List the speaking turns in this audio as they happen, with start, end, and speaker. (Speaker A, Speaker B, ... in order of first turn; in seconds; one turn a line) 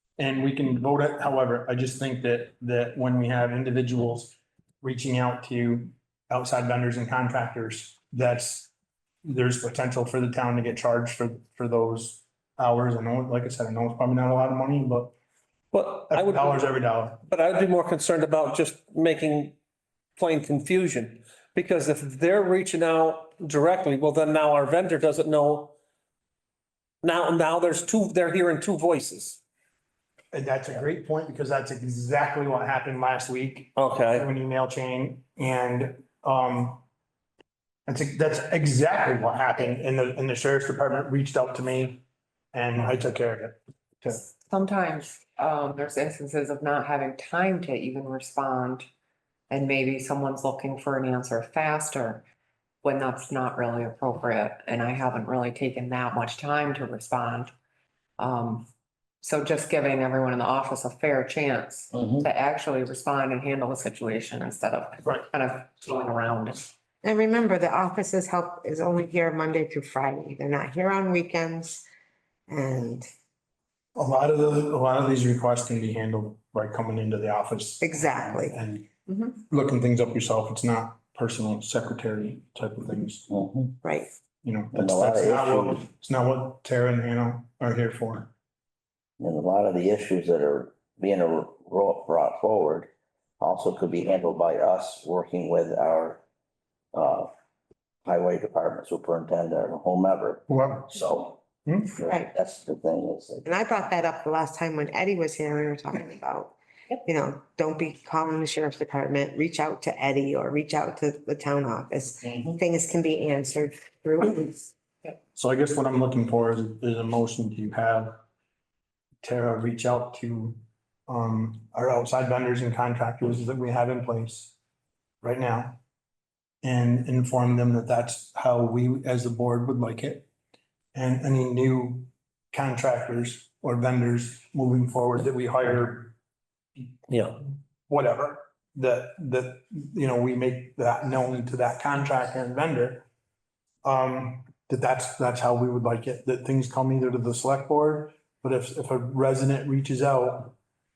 Speaker A: 0.2-8.7
Speaker A: 9.2-15.1
Speaker B: 15.7-16.6
Speaker A: 16.1-17.2
Speaker B: 17.3-19.6
Speaker B: 20.2-25.8
Speaker B: 27.0-29.4
Speaker A: 30.3-36.8
Speaker B: 33.8-34.3
Speaker A: 37.9-44.2
Speaker C: 44.1-48.9
Speaker C: 49.5-52.2
Speaker C: 52.8-57.5
Speaker C: 58.2-58.7
Speaker C: 59.2-66.7
Speaker D: 62.0-62.2
Speaker E: 67.0-71.8
Speaker E: 72.5-73.1
Speaker A: 74.0-83.3
Speaker E: 77.8-78.6
Speaker D: 83.3-83.7
Speaker E: 83.8-84.1
Speaker A: 84.4-88.3
Speaker D: 84.7-85.8
Speaker D: 89.2-92.9
Speaker D: 93.4-96.2
Speaker D: 96.9-97.3
Speaker D: 98.0-101.4
Speaker A: 100.5-101.0
Speaker A: 101.7-101.9
Speaker D: 102.0-103.5
Speaker E: 102.0-102.3
Speaker E: 103.5-114.7
Speaker A: 115.3-118.2
Speaker A: 119.2-124.5
Speaker A: 125.2-125.8
Speaker A: 126.6-130.3
Speaker A: 130.9-136.2
Speaker B: 137.1-137.4
Speaker A: 137.9-143.1
Speaker A: 143.8-150.6